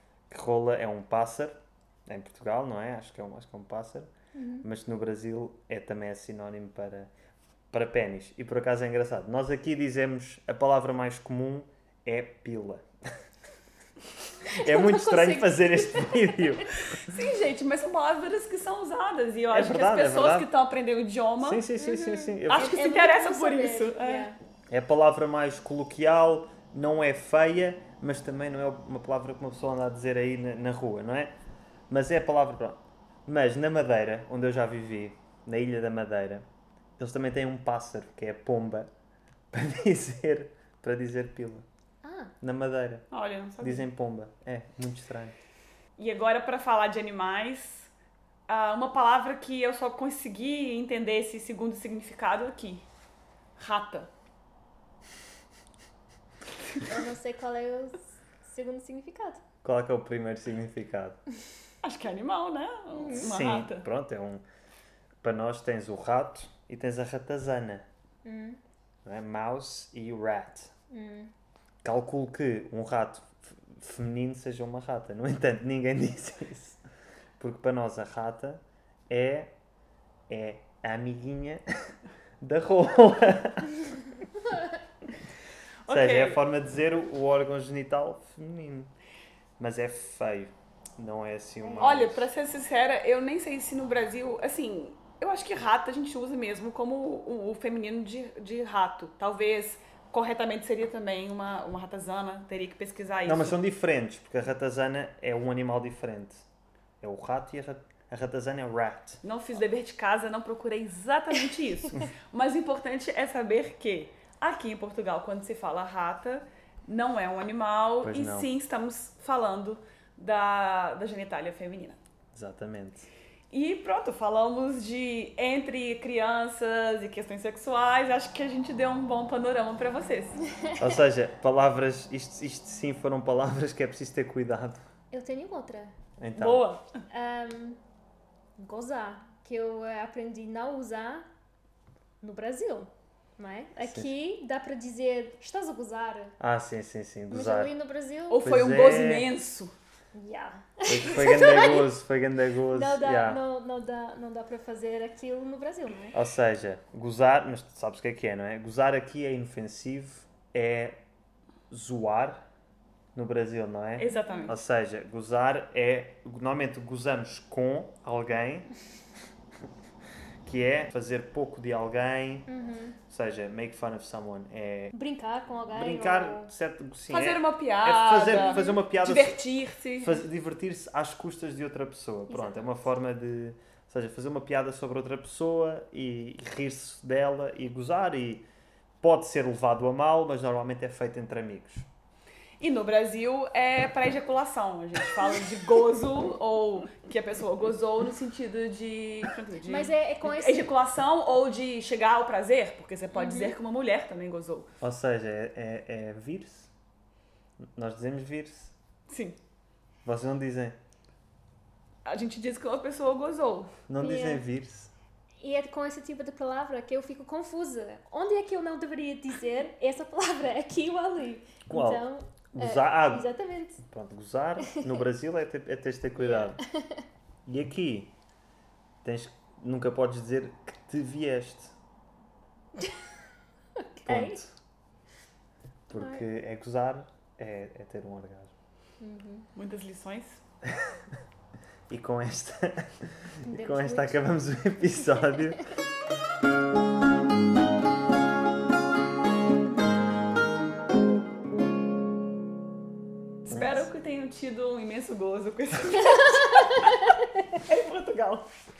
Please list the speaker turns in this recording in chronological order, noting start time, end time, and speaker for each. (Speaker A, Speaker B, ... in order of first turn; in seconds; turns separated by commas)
Speaker A: 0.3-7.1, Speaker B: 4.3-4.7, Speaker A: 7.7-12.8, Speaker B: 14.5-16.8, Speaker A: 14.5-16.7, Speaker C: 16.8-21.6, Speaker A: 19.5-20.5, Speaker A: 21.4-22.8, Speaker B: 21.8-24.4, Speaker C: 22.5-24.3, Speaker A: 24.7-31.3, Speaker A: 31.9-36.4, Speaker A: 37.0-38.9, Speaker A: 39.5-41.6, Speaker B: 42.0-42.3, Speaker A: 42.4-43.1, Speaker C: 43.1-43.9, Speaker A: 43.6-45.3, Speaker C: 46.0-47.9, Speaker C: 48.5-52.9, Speaker C: 53.6-54.1, Speaker B: 56.9-59.4, Speaker A: 59.6-61.2, Speaker C: 61.8-63.9, Speaker B: 62.9-63.3, Speaker A: 63.1-64.4, Speaker A: 65.2-67.8, Speaker B: 68.2-68.6, Speaker A: 69.0-70.7, Speaker B: 70.9-71.3, Speaker A: 71.8-76.8, Speaker A: 77.4-79.5, Speaker A: 80.3-81.6, Speaker A: 82.4-83.8, Speaker C: 85.8-86.4, Speaker A: 85.9-88.9, Speaker A: 89.6-92.3, Speaker B: 91.6-92.0, Speaker C: 91.8-103.6, Speaker A: 103.2-106.4, Speaker A: 107.0-109.2, Speaker C: 109.2-122.0, Speaker A: 118.0-118.5, Speaker A: 122.3-123.1, Speaker C: 123.5-130.4, Speaker B: 130.6-130.9, Speaker A: 130.8-134.8, Speaker B: 135.1-135.9, Speaker A: 136.2-136.7, Speaker C: 136.3-136.8, Speaker B: 137.1-137.8, Speaker B: 138.6-141.2, Speaker B: 142.2-146.3, Speaker A: 143.8-144.1, Speaker A: 146.4-147.7, Speaker B: 147.3-148.5, Speaker C: 148.3-149.7, Speaker A: 148.4-149.3, Speaker B: 150.1-151.9, Speaker A: 150.9-153.4, Speaker B: 152.7-156.2, Speaker A: 156.1-161.0, Speaker A: 161.7-162.4, Speaker A: 163.1-168.7, Speaker C: 164.0-164.6, Speaker B: 164.2-164.5, Speaker A: 170.4-172.5, Speaker B: 172.5-173.0, Speaker A: 173.1-174.9, Speaker B: 174.9-176.5, Speaker A: 175.7-179.4, Speaker C: 177.1-180.2, Speaker B: 178.3-178.8, Speaker A: 180.0-188.4, Speaker B: 182.3-182.8, Speaker A: 189.0-191.8, Speaker C: 192.6-204.7, Speaker B: 199.6-200.7, Speaker B: 203.1-203.6, Speaker A: 204.8-206.7, Speaker A: 207.6-208.7, Speaker C: 209.1-209.4, Speaker A: 210.0-210.8, Speaker C: 212.1-213.7, Speaker A: 213.9-214.9, Speaker B: 214.0-214.4, Speaker B: 215.4-223.8, Speaker A: 221.7-226.6, Speaker B: 224.6-225.0, Speaker B: 226.2-227.0, Speaker A: 227.4-228.1, Speaker A: 229.0-231.7, Speaker B: 233.8-234.4, Speaker A: 234.1-234.5, Speaker A: 235.9-238.5, Speaker B: 236.0-236.2, Speaker B: 239.0-239.5, Speaker C: 239.5-240.4, Speaker A: 241.9-245.6, Speaker B: 243.4-244.3, Speaker B: 244.9-245.6, Speaker A: 253.5-253.9, Speaker C: 253.5-257.1, Speaker C: 257.6-258.5